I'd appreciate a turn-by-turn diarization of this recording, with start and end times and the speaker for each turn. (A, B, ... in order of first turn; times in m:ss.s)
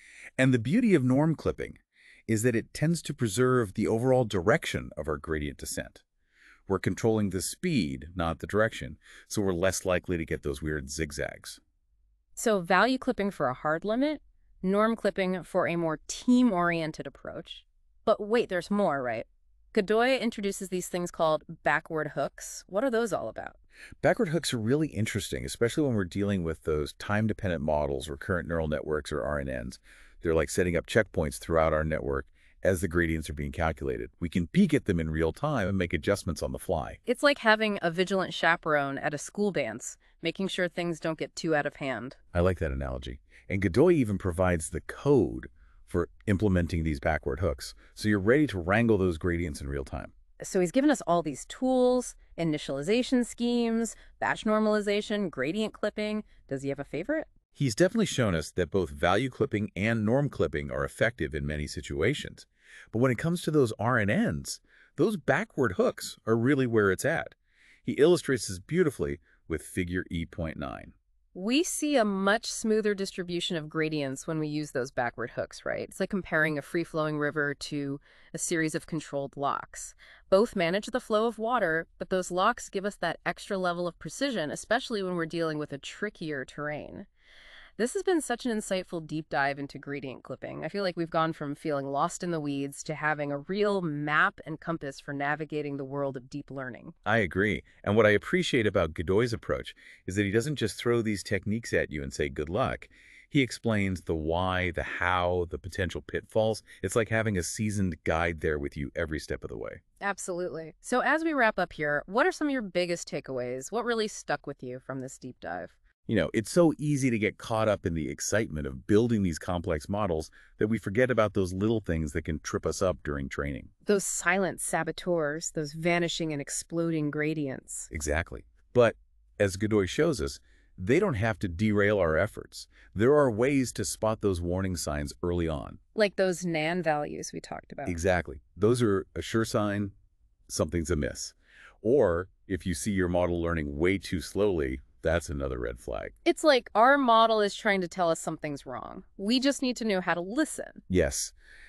0:00.4-0:06.0 A
0:06.7-0:11.6 A
0:12.4-0:23.6 B
0:24.0-0:37.0 A
0:37.0-0:42.2 B
0:42.3-0:50.1 A
0:50.4-0:57.3 B
0:57.6-1:10.9 A
1:11.3-1:27.1 B
1:27.8-1:36.9 B
1:37.0-1:49.8 A
1:50.0-1:55.8 B
1:56.0-2:03.7 A
2:03.8-2:07.9 B
2:07.9-2:15.8 A
2:15.9-2:18.0 B
2:17.8-2:19.9 A
2:20.5-2:26.1 A
2:26.2-2:30.8 B
2:30.9-2:31.3 A